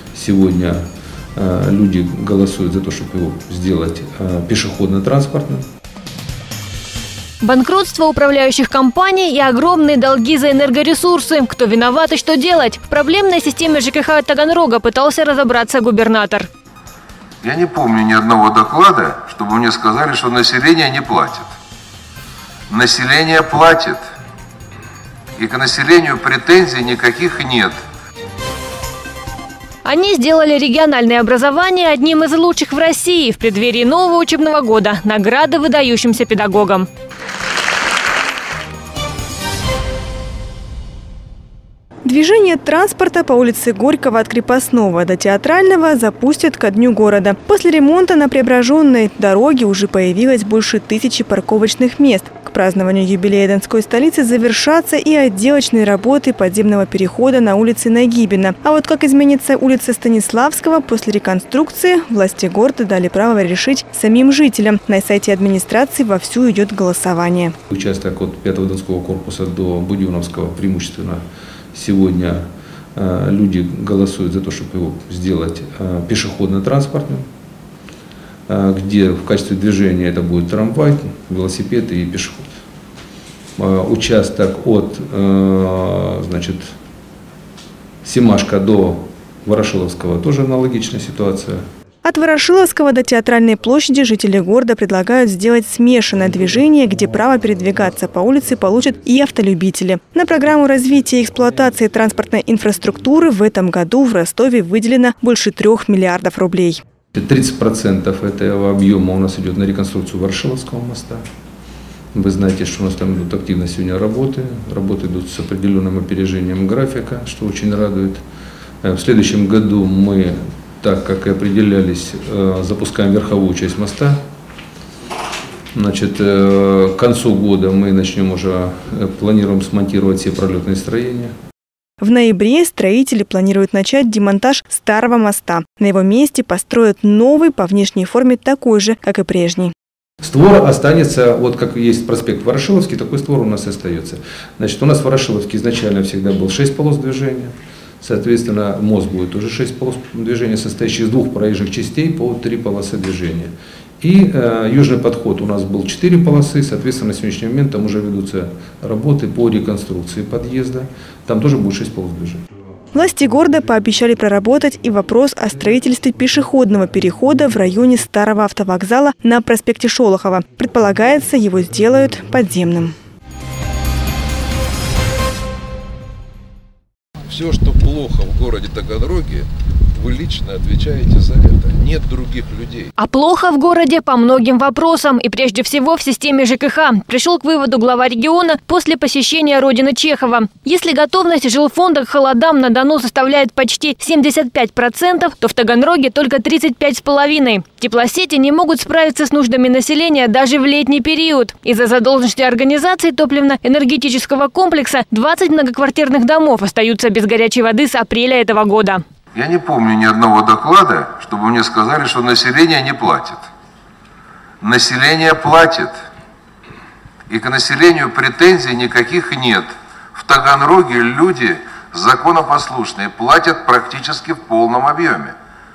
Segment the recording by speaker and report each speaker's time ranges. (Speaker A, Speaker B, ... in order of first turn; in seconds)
Speaker A: 0.1-0.8, 1.4-5.6, 67.7-71.2, 71.7-77.3, 78.5-82.5, 83.6-86.7, 88.0-91.6, 107.1-111.2, 112.2-118.2, 118.8-124.2, 125.7-131.3, 140.2-162.4
Speaker B: 7.4-16.5, 29.8-36.9, 183.0-209.0
Speaker C: 17.4-21.5, 22.7-24.0, 25.4-27.8, 177.3-182.9, 209.3-213.5, 214.6-216.0, 217.3-225.3
Speaker D: 42.0-67.5, 92.0-106.8, 132.0-139.7, 162.9-173.0